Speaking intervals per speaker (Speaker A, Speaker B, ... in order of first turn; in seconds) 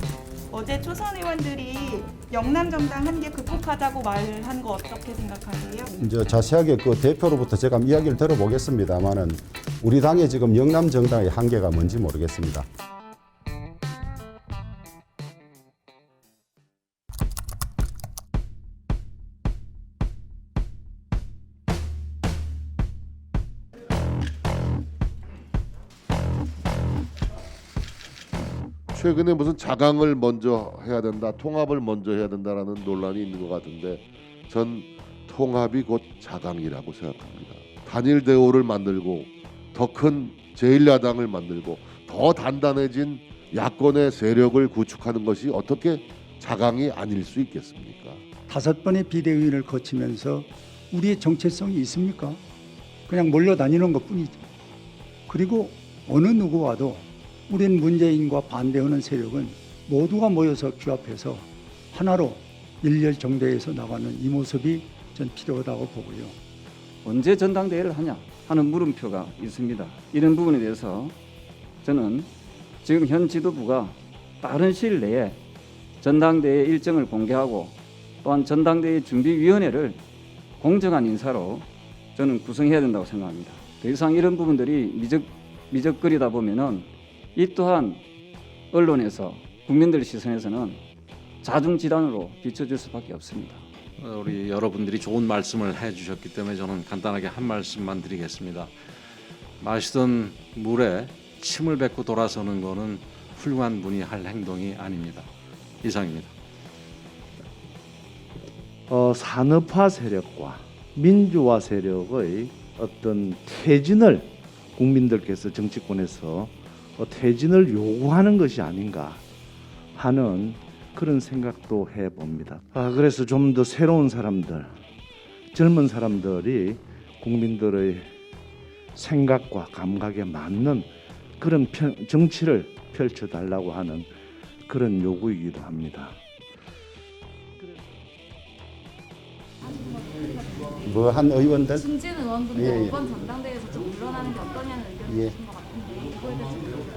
Speaker A: 0.5-6.0
Speaker B: 6.0-12.7, 140.8-141.9, 142.5-143.0, 145.1-145.3
Speaker C: 28.9-48.2
Speaker D: 48.5-52.4, 53.1-54.4, 55.3-66.3
Speaker E: 67.0-71.1, 71.8-72.3, 72.8-75.4, 76.0-80.0, 80.6-88.0, 88.7-90.8, 91.4-93.6
Speaker F: 94.0-98.7, 99.6-105.3, 105.8-106.3
Speaker G: 108.9-119.2, 119.9-124.8, 125.5-128.1, 128.9-134.1, 134.7-136.2
Speaker H: 139.8-140.8, 141.8-146.7